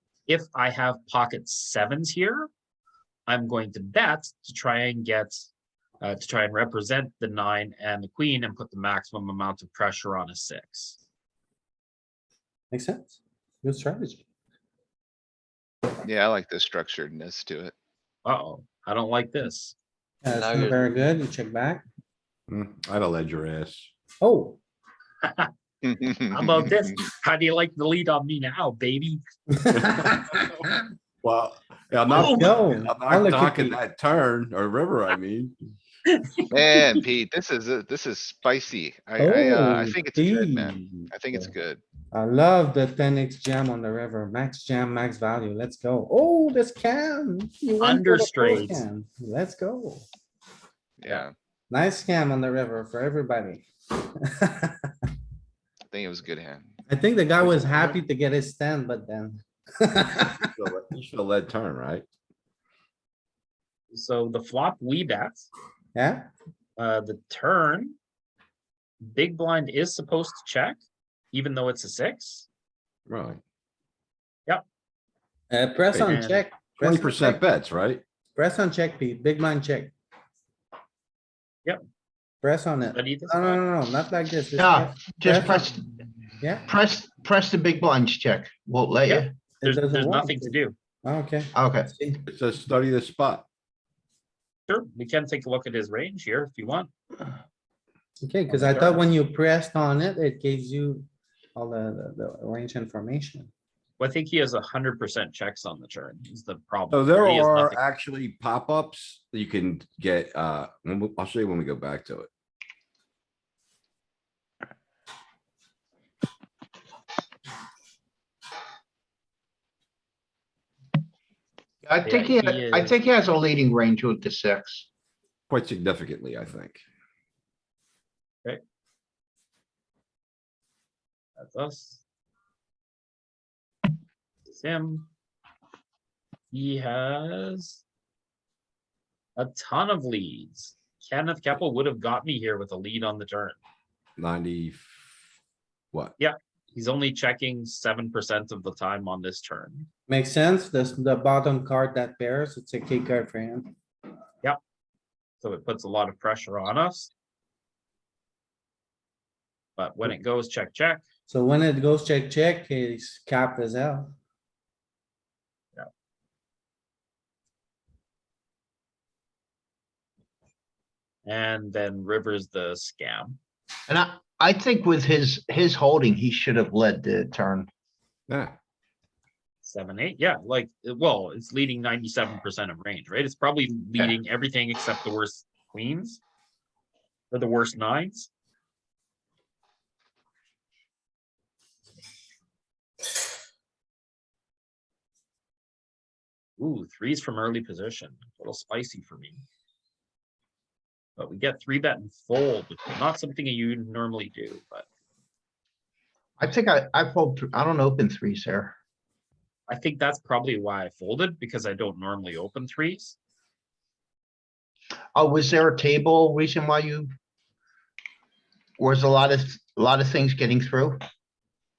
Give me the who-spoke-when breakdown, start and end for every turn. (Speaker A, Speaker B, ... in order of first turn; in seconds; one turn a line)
Speaker A: 0.3-2.5
Speaker A: 3.3-5.5
Speaker A: 6.0-11.0
Speaker B: 12.7-14.2
Speaker C: 16.0-17.8
Speaker A: 18.2-19.8
Speaker B: 20.2-21.8
Speaker D: 22.5-23.9
Speaker B: 24.2-24.6
Speaker A: 25.2-25.5
Speaker C: 25.8-26.9
Speaker A: 26.3-29.2
Speaker B: 29.5-30.7
Speaker D: 29.7-30.6
Speaker D: 31.2-35.5
Speaker A: 32.1-32.5
Speaker B: 32.1-33.8
Speaker A: 36.1-36.5
Speaker C: 36.5-41.8
Speaker B: 39.2-41.5
Speaker B: 42.1-50.1
Speaker A: 47.8-48.8
Speaker C: 51.0-51.3
Speaker B: 51.7-54.9
Speaker C: 55.9-56.7
Speaker B: 56.9-60.5
Speaker A: 57.4-58.0
Speaker D: 60.5-62.0
Speaker A: 63.9-65.5
Speaker B: 66.0-66.3
Speaker A: 66.8-68.0
Speaker A: 69.0-70.8
Speaker A: 71.3-72.5
Speaker D: 73.1-73.4
Speaker B: 75.5-77.4
Speaker D: 75.9-78.0
Speaker A: 76.1-76.4
Speaker B: 78.4-79.9
Speaker B: 82.4-85.7
Speaker A: 83.0-83.6
Speaker E: 84.6-85.8
Speaker B: 86.4-86.7
Speaker E: 86.7-89.3
Speaker A: 89.1-90.8
Speaker B: 89.6-92.2
Speaker E: 91.5-91.9
Speaker D: 92.3-93.5
Speaker A: 94.7-96.9
Speaker B: 98.2-103.5
Speaker A: 98.5-99.0
Speaker A: 104.0-107.8
Speaker D: 106.9-112.3
Speaker E: 121.8-124.9
Speaker A: 122.0-123.0
Speaker D: 125.5-126.8
Speaker A: 131.4-132.0
Speaker A: 134.5-135.1
Speaker A: 136.5-137.8
Speaker A: 139.4-143.6
Speaker D: 144.2-145.1
Speaker A: 146.2-149.9
Speaker B: 150.1-153.7
Speaker A: 155.4-157.1
Speaker A: 159.8-161.0
Speaker B: 161.3-164.2
Speaker A: 171.2-173.4
Speaker E: 173.9-177.7
Speaker D: 178.3-178.6
Speaker A: 179.6-186.2
Speaker A: 187.3-188.3
Speaker A: 196.6-199.4
Speaker A: 201.2-204.9
Speaker E: 206.4-208.7
Speaker A: 209.7-213.2
Speaker E: 215.2-217.1
Speaker E: 218.8-221.0